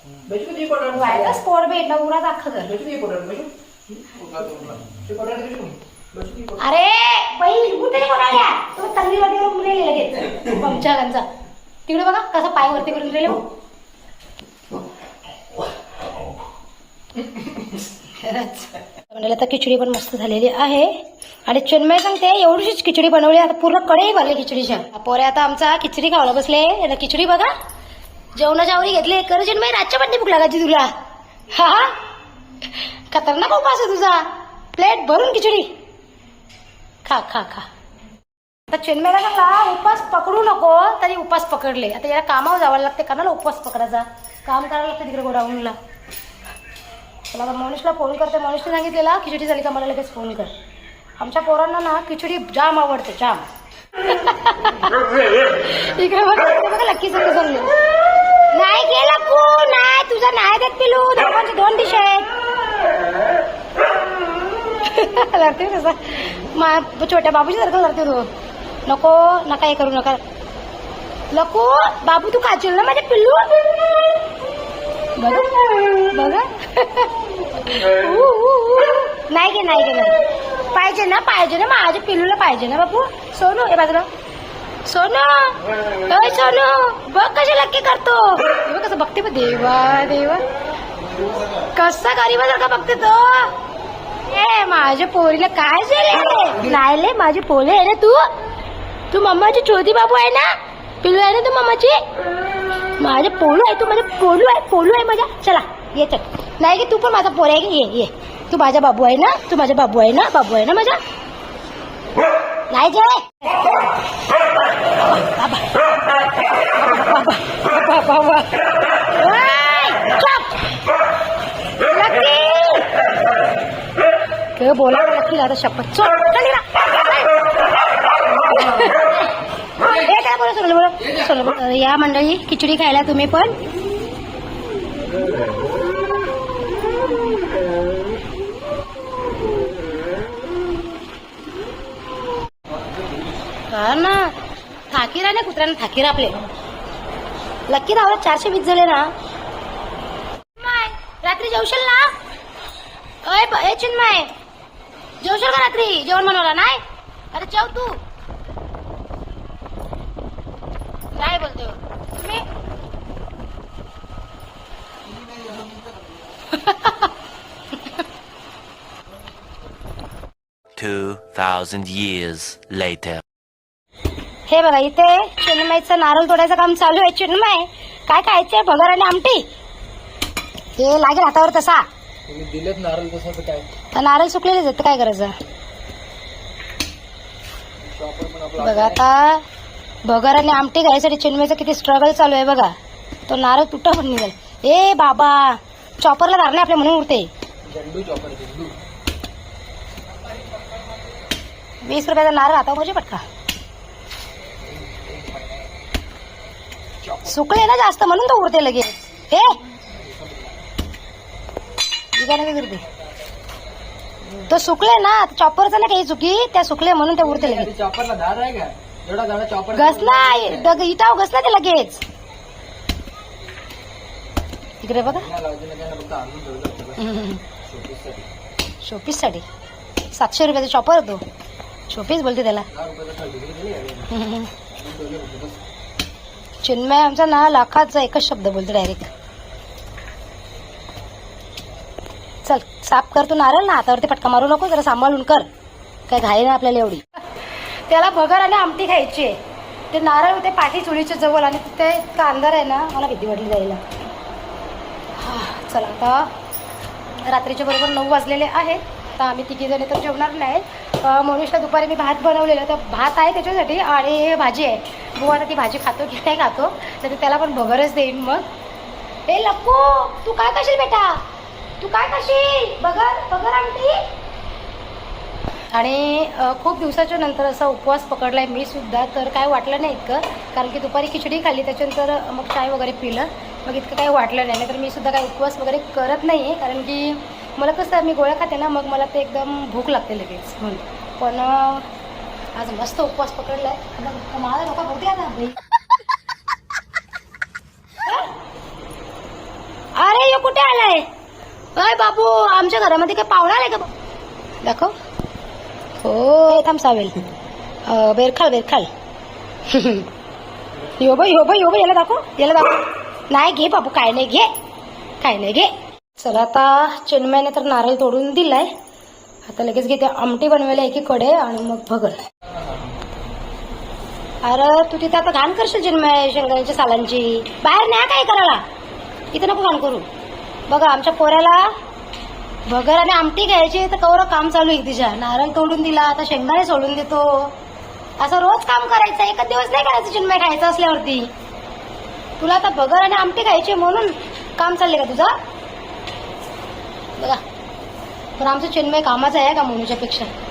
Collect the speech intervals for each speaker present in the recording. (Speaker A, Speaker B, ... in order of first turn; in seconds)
Speaker A: 0.2-1.4, 2.7-6.6, 182.3-183.7, 187.8-189.0, 197.7-198.8, 204.7-205.7, 207.0-207.4, 209.9-210.6, 217.2-220.8, 225.0-228.3, 232.7-234.1, 234.7-235.6, 322.5-322.9
Speaker B: 0.9-2.8, 6.6-11.3, 11.9-13.4, 18.0-27.5, 28.3-30.9, 31.5-32.0, 32.7-35.7, 37.0-37.6, 38.7-45.8, 47.3-50.5, 51.2-53.5, 54.0-55.0, 55.5-57.7, 58.5-62.3, 64.8-68.3, 68.8-70.2, 71.3-73.5, 75.2-77.1, 77.7-80.2, 80.7-84.1, 84.8-90.5, 91.6-93.5, 94.2-98.3, 99.1-102.0, 103.0-111.0, 112.7-113.8, 114.9-115.7, 116.7-120.6, 121.8-122.9, 124.6-127.3, 128.5-129.2, 129.8-133.6, 143.7-144.3, 144.9-146.4, 147.7-149.1, 150.6-152.2, 153.2-154.3, 155.2-158.0, 161.1-162.4, 166.5-167.1, 174.5-179.5, 180.8-181.9, 183.9-185.3, 188.6-189.4, 190.0-192.7, 193.3-197.3, 201.8-203.2, 207.3-209.6, 212.1-212.8, 214.5-217.7, 219.8-222.0, 224.8-225.3, 227.0-227.4, 228.8-229.4, 230.1-231.2, 231.9-232.7, 234.1-234.5, 236.6-239.1, 242.4-245.5, 246.1-249.4, 249.9-253.8, 255.2-256.3, 257.2-268.5, 269.3-271.2, 271.8-274.0, 275.7-291.9, 292.5-295.6, 298.1-298.3, 299.9-301.1, 301.8-303.9, 304.6-304.9, 306.0-307.2, 307.9-308.9, 309.6-310.1, 311.0-314.5, 315.2-318.7, 319.4-322.2, 324.4-328.6, 329.3-330.1, 330.7-331.7, 332.7-337.6, 338.2-341.3, 342.4-345.4, 347.2-347.4, 348.4-350.3
Speaker C: 170.8-173.2